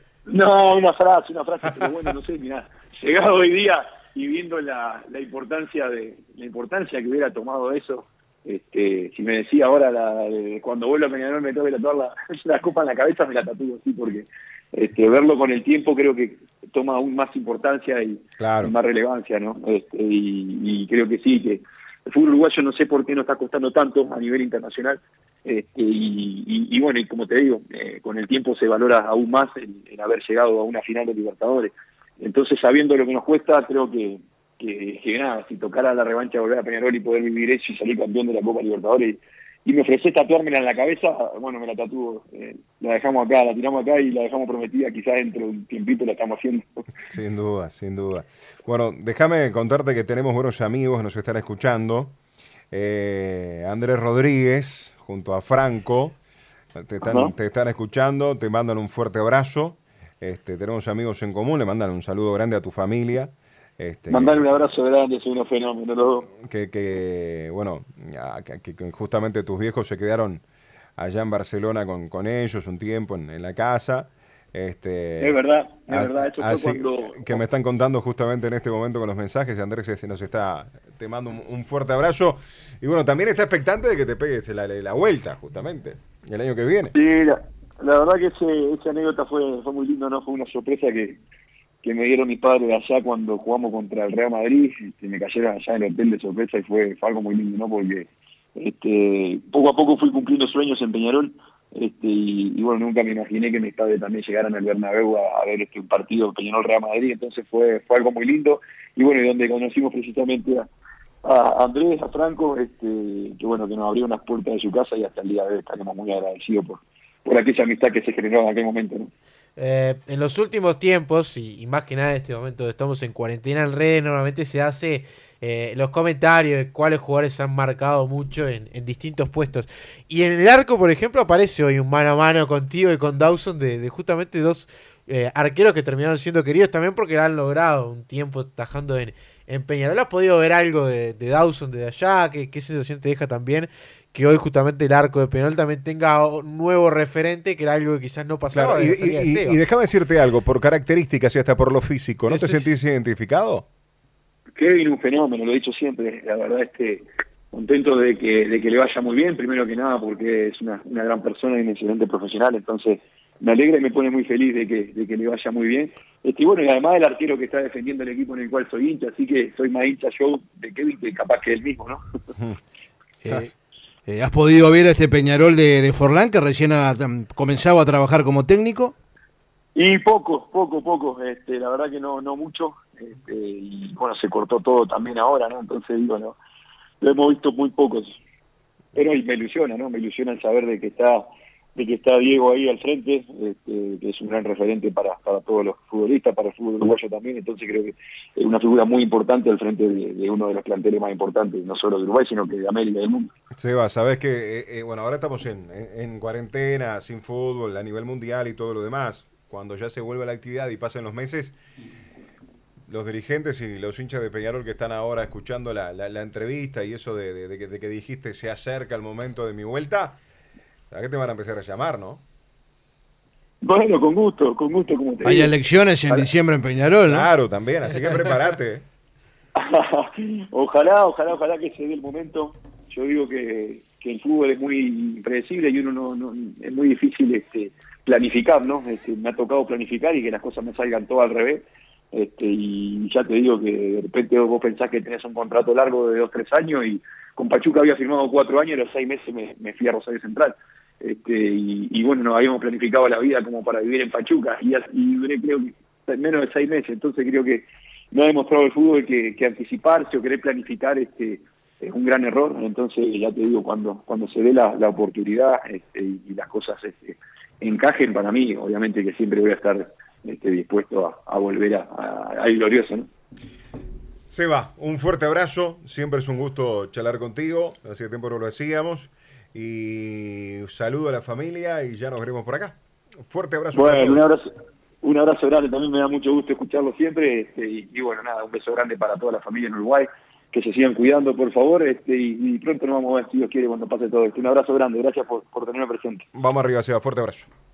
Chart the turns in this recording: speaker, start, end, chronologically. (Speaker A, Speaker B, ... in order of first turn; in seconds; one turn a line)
Speaker A: 0.3-46.9
Speaker B: 18.4-18.7
Speaker B: 47.1-52.1
Speaker B: 52.7-56.1
Speaker B: 56.7-64.4
Speaker A: 57.0-57.3
Speaker A: 64.1-66.3
Speaker B: 66.3-70.4
Speaker B: 71.0-75.4
Speaker A: 75.2-77.4
Speaker B: 75.9-86.9
Speaker A: 86.9-91.2
Speaker A: 91.8-110.7
Speaker A: 111.2-119.1
Speaker C: 119.6-149.6
Speaker B: 148.5-153.7
Speaker C: 152.3-152.7
Speaker A: 154.6-172.0
Speaker D: 173.2-173.5
Speaker D: 174.1-178.9
Speaker A: 179.8-186.4
Speaker A: 187.0-188.2
Speaker A: 188.9-203.3
Speaker B: 203.6-211.6
Speaker B: 212.9-220.2
Speaker B: 220.9-222.2
Speaker A: 223.6-225.6
Speaker D: 225.2-227.3
Speaker B: 227.1-228.8
Speaker A: 229.6-273.1
Speaker B: 274.3-284.2
Speaker A: 283.7-284.4
Speaker A: 285.0-296.2
Speaker B: 296.3-297.5